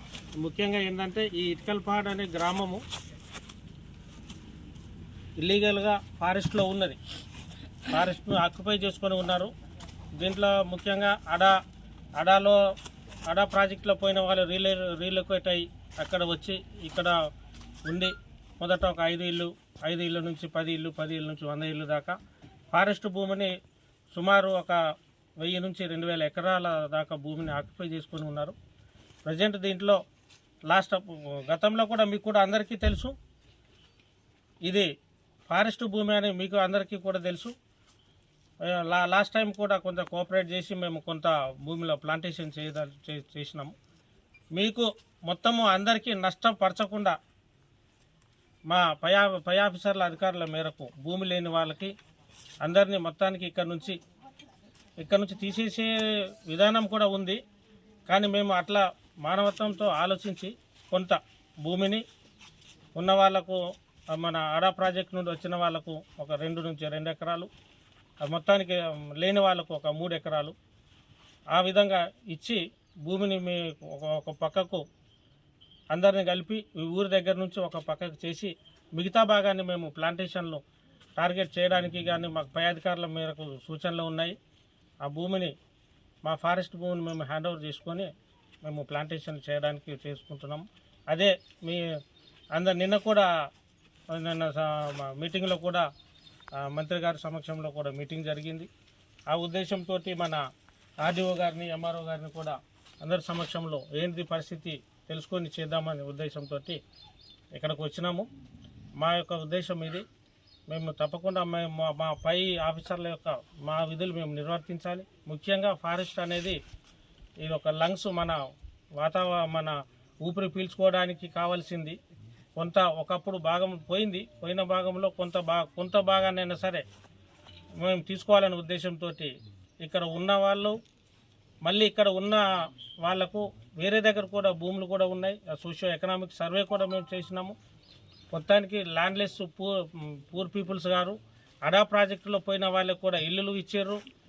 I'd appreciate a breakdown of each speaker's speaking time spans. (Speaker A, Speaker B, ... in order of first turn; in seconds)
Speaker A: 0.4-2.8, 5.4-7.0, 7.9-9.5, 10.2-11.6, 12.2-12.6, 13.3-17.1, 17.9-22.1, 22.7-23.5, 24.1-24.8, 25.4-28.6, 29.2-30.0, 30.7-33.1, 35.5-37.5, 38.7-43.7, 44.5-47.2, 48.7-51.9, 52.6-54.0, 55.0-55.9, 56.5-57.4, 58.1-62.0, 63.0-63.6, 64.1-67.5, 68.2-70.5, 71.5-74.8, 75.9-80.6, 81.2-84.3, 85.0-85.5, 86.2-88.1, 88.6-91.8, 92.5-93.3, 94.1-95.8, 96.6-98.7, 99.3-100.4, 101.0-106.8, 107.5-108.3, 109.0-110.0, 110.7-116.6, 117.4-118.4, 119.0-122.0, 122.6-126.8, 127.8-130.8, 131.6-132.5, 133.0-137.5, 138.3-144.0